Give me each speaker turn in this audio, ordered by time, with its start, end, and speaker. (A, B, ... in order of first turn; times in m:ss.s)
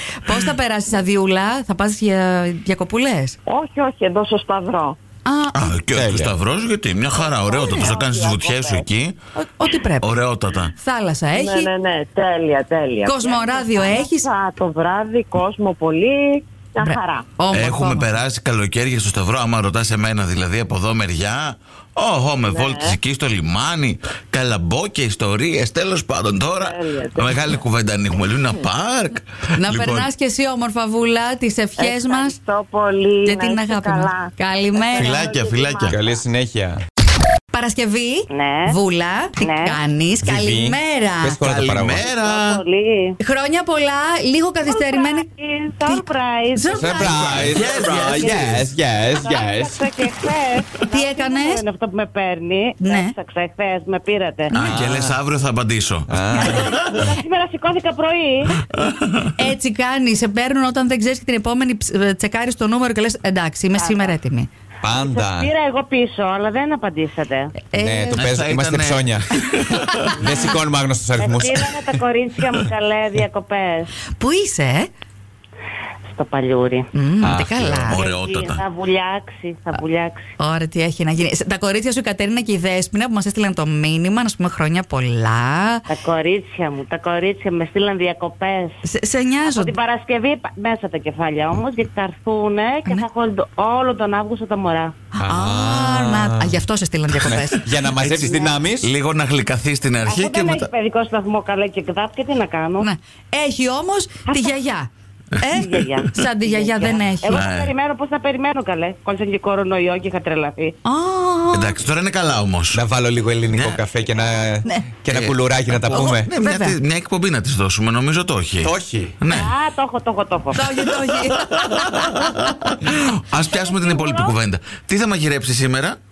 0:00.2-0:03.4 A
0:03.5-0:05.0 B
0:05.3-0:05.8 A
0:05.5-0:09.2 C
0:05.9-0:06.3 D
0:07.4-0:08.9 B
0:09.4-0:10.2 A
0:10.0-0:10.8 C
0:10.8-0:11.7 A
0:11.3-0:17.3 B
0:13.0-0:14.3 A
0:16.8-0:18.1 A
0:17.5-0:30.1 C
0:22.4-0:23.0 B
0:26.6-0:27.3 B
0:29.6-0:32.4 A
0:31.8-0:36.0 B
0:33.2-0:35.2 A
0:35.0-0:36.0 C
0:35.9-0:36.8 D
0:37.5-0:41.4 A
0:38.3-0:38.8 E
0:39.4-0:39.8 E
0:40.2-0:42.0 D
0:41.4-0:42.6 C
0:42.0-0:43.2 E
0:43.2-0:45.3 A
0:44.6-0:54.5 E
0:46.5-0:47.2 A
0:46.7-0:49.8 D
0:47.1-0:48.7 C
0:50.9-0:51.6 A
0:52.8-0:53.1 A
0:54.5-0:54.8 A
0:54.5-0:55.2 D
0:54.6-0:57.1 C
0:56.1-0:56.6 D
0:56.4-0:58.6 E
0:58.7-0:59.3 C
0:59.4-1:04.5 A
1:03.8-1:04.2 E
1:04.8-1:05.5 D
1:04.9-1:07.6 E
1:07.7-1:08.3 A
1:07.7-1:09.2 D
1:08.1-1:10.3 C
1:10.2-1:12.0 D
1:11.2-1:13.9 E
1:14.1-1:14.9 A
1:16.1-1:16.8 E
1:16.9-1:18.0 A
1:17.2-1:18.0 D
1:17.9-1:18.6 C
1:17.9-1:20.3 E
1:20.4-1:25.8 A
1:25.9-1:28.7 E
1:28.8-1:29.7 A
1:29.4-1:35.0 E
1:35.1-1:37.6 A
1:35.2-1:36.6 D
1:37.2-1:38.9 D
1:37.9-1:40.7 C
1:40.0-1:42.9 E
1:42.8-1:47.5 A
1:44.3-1:44.6 E
1:45.4-1:50.8 E
1:47.3-1:47.7 C
1:50.8-1:51.8 A
1:51.5-1:52.8 C
1:52.7-1:56.3 D
1:53.5-1:53.8 C
1:55.1-1:59.5 C
1:55.9-1:56.8 A
1:58.6-1:59.2 D
1:59.3-2:00.7 E
2:00.5-2:01.7 A
2:00.7-2:06.0 C
2:03.3-2:04.4 E